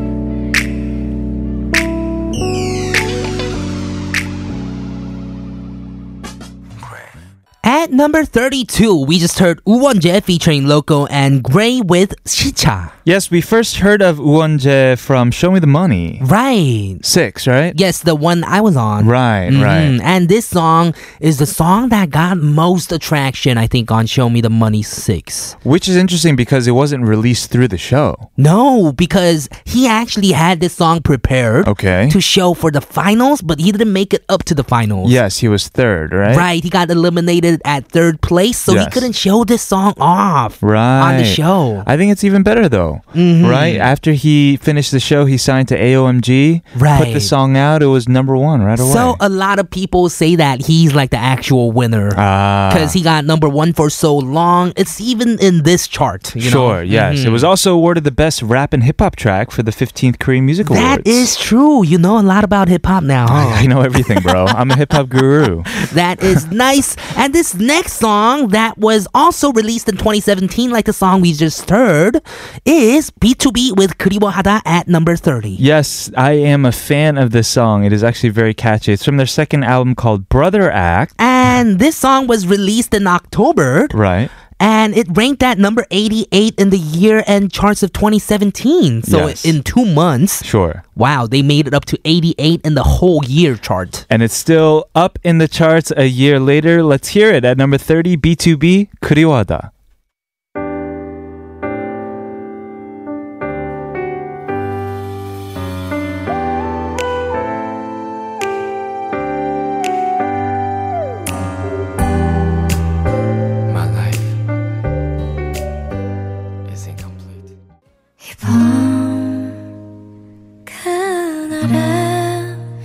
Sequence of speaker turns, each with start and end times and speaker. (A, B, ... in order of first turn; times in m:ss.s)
0:07.6-0:12.9 A
0:13.0-0:16.2 B
0:16.2-0:17.0 A
0:17.0-0:17.8 B
0:17.7-0:25.5 A
0:19.0-0:20.0 B
0:25.6-0:28.3 B
0:28.4-0:35.1 A
0:31.6-0:32.2 B
0:35.0-0:36.5 B
0:36.3-0:41.9 A
0:38.7-0:39.1 B
0:40.6-0:49.2 B
0:43.1-0:43.9 A
0:46.7-0:47.3 A
0:48.8-0:57.5 A
0:52.1-0:53.0 B
0:56.4-1:01.3 B
1:00.6-1:04.6 A
1:03.3-1:05.7 B
1:05.7-1:15.6 A
1:15.6-1:21.1 B
1:21.2-1:24.0 A
1:23.9-1:24.3 B
1:24.6-1:30.4 A
1:29.0-1:29.6 B
1:30.4-1:30.8 B
1:31.0-1:34.0 A
1:34.1-1:39.7 B
1:58.2-1:59.6 C
2:00.6-2:02.6 C